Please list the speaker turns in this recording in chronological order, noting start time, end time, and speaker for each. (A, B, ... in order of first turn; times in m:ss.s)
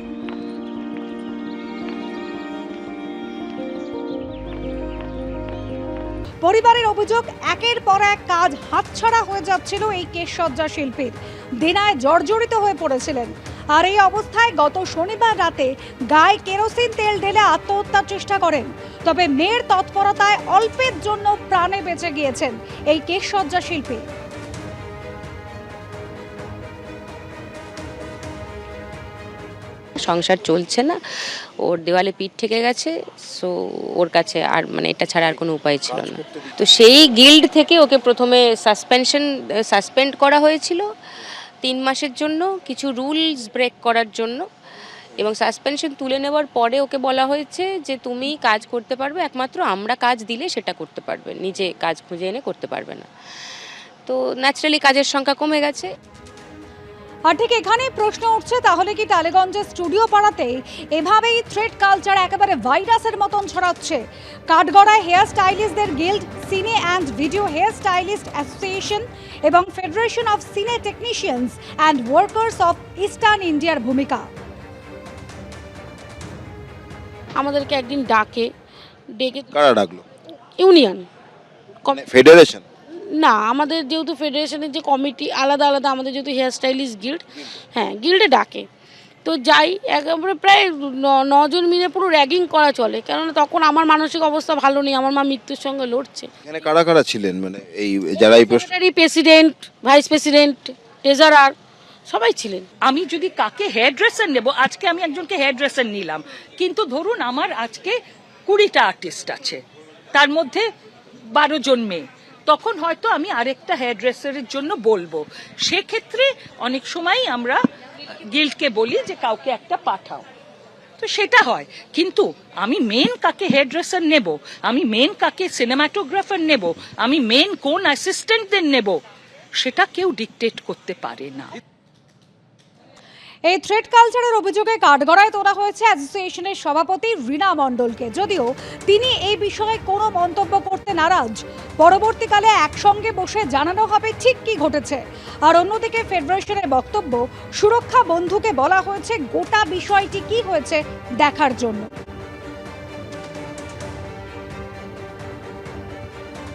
0:06.4-0:24.0 A
0:30.0-0:31.0 B
0:31.6-0:40.8 B
0:41.6-0:44.4 B
0:45.2-0:53.0 B
0:54.1-0:55.9 B
0:57.3-1:14.2 A
1:17.4-1:18.5 C
1:19.1-1:19.5 C
1:19.5-1:20.0 D
1:20.6-1:21.0 C
1:21.9-1:22.6 D
1:23.1-1:28.7 C
1:29.2-1:36.3 C
1:36.4-1:38.7 D
1:38.1-1:41.5 C
1:42.1-1:42.6 C
1:42.8-1:48.0 E
1:48.5-1:49.6 E
1:50.1-1:50.6 E
1:51.3-1:57.6 E
1:58.3-2:00.3 E
2:01.0-2:09.0 E
2:09.6-2:11.5 E
2:13.5-2:31.9 A